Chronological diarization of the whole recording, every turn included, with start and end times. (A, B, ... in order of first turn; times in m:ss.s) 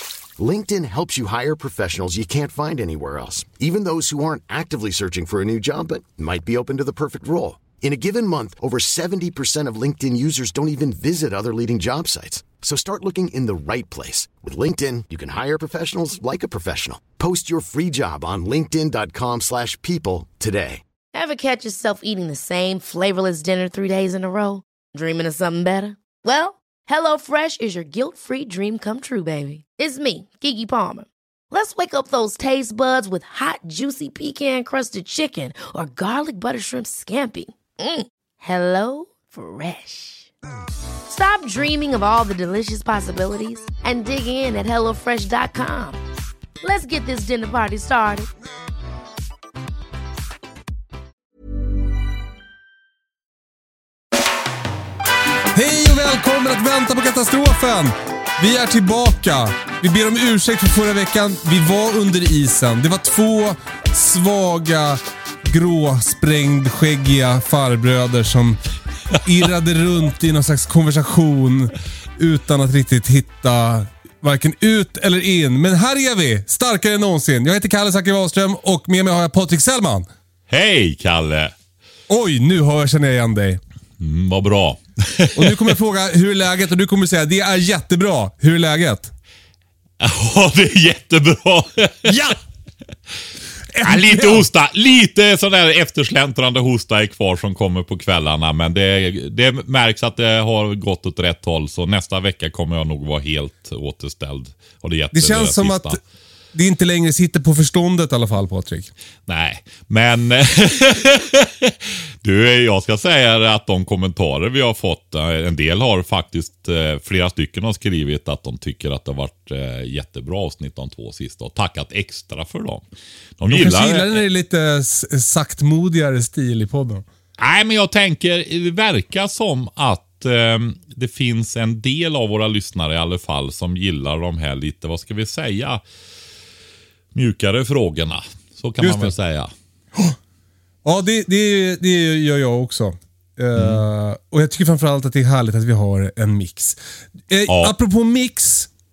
0:00.4-0:20.8 A
0:21.1-0:40.3 B
0:41.1-0:46.0 B
0:46.6-0:48.3 B
0:55.5-1:08.6 C
1:09.2-1:20.1 C
1:20.5-1:21.5 D
1:22.1-1:23.6 C
1:24.0-1:25.8 D
1:25.3-1:29.1 C
1:30.0-1:32.2 D
1:32.0-1:32.4 C
1:33.7-1:34.5 C
1:33.8-1:46.0 D
1:45.1-1:46.0 C
1:46.5-1:48.9 C
1:49.3-2:02.8 D
2:03.4-2:04.2 D
2:03.5-2:07.0 C
2:07.4-2:15.8 D
2:17.1-2:19.5 D
2:18.8-2:19.1 C
2:20.8-2:26.8 C
2:23.6-2:23.8 D
2:27.3-2:28.7 C
2:27.5-2:27.7 D